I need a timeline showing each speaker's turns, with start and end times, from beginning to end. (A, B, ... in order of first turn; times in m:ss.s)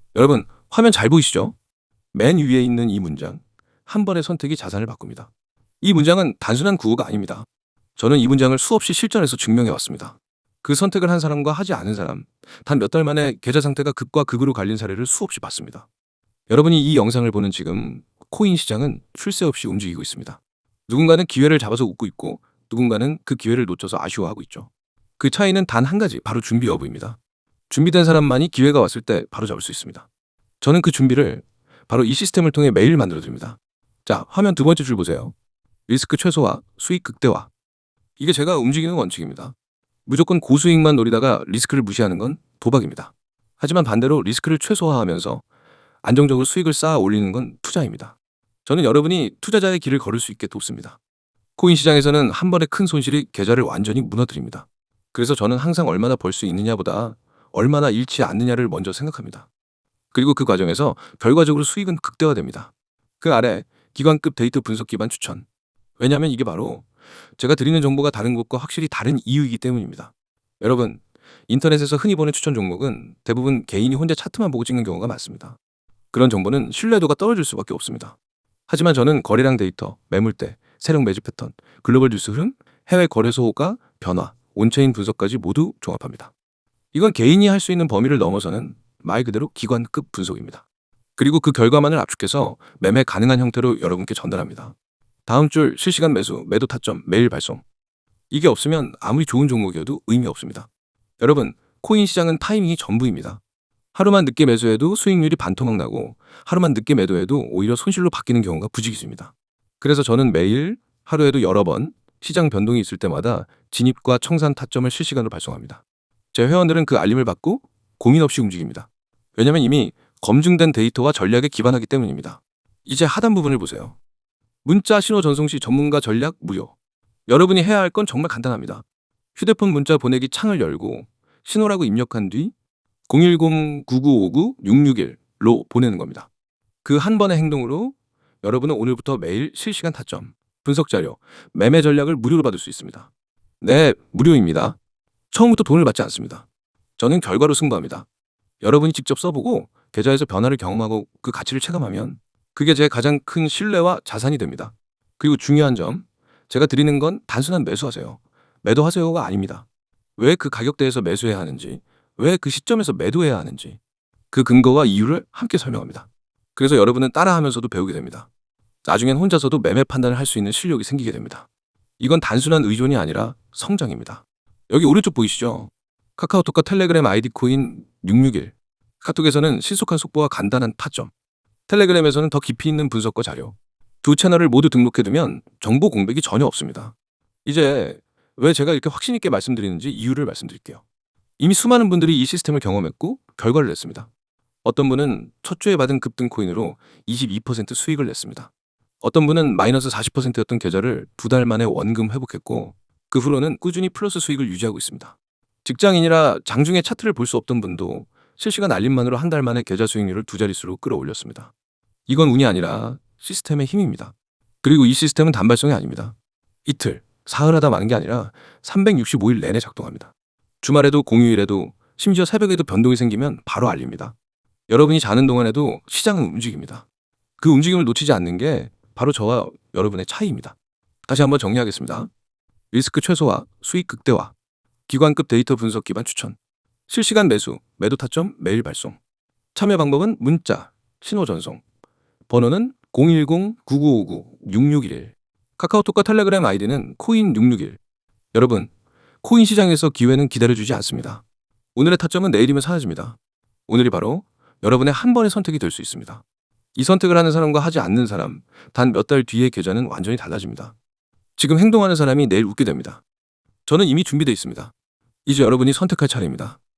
0:00.1-0:01.6 A
0:02.1-0:05.3 A
0:05.8-0:15.9 A
0:16.5-0:27.2 A
0:27.7-0:30.1 A
0:30.6-0:35.4 A
0:35.9-0:37.5 A
0:38.2-0:39.6 A
0:40.1-0:45.4 A
0:46.0-0:51.0 A
0:51.6-0:59.5 A
1:00.1-1:05.5 A
1:06.0-1:06.9 A
1:07.4-1:15.6 A
1:16.1-1:18.2 A
1:18.7-1:26.3 A
1:26.9-1:30.6 A
1:31.2-1:34.8 A
1:35.2-1:37.6 A
1:38.3-1:40.7 A
1:41.2-1:43.4 A
1:43.9-1:55.8 A
1:56.3-2:04.0 A
2:04.6-2:06.8 A
2:07.3-2:08.8 A
2:09.4-2:12.5 A
2:13.1-2:16.3 A
2:16.8-2:23.1 A
2:23.6-2:24.8 A
2:25.3-2:26.5 A
2:27.0-2:28.1 A
2:28.6-2:39.7 A
2:40.2-2:43.8 A
2:44.3-2:48.3 A
2:48.8-2:51.5 A
2:52.0-3:01.1 A
3:01.7-3:06.9 A
3:07.4-3:10.8 A
3:11.4-3:14.1 A
3:14.6-3:18.5 A
3:19.0-3:31.5 A
3:32.1-3:36.2 A
3:36.7-3:44.2 A
3:44.7-3:46.8 A
3:47.4-3:50.6 A
3:51.1-3:52.1 A
3:52.7-3:54.3 A
3:54.9-3:56.4 A
3:56.9-3:59.0 A
3:59.6-4:01.6 A
4:02.3-4:07.8 A
4:08.3-4:08.7 A
4:09.2-4:11.2 A
4:11.8-4:13.2 A
4:13.7-4:16.2 A
4:16.8-4:20.8 A
4:21.4-4:23.0 A
4:23.7-4:24.7 A
4:25.2-4:26.6 A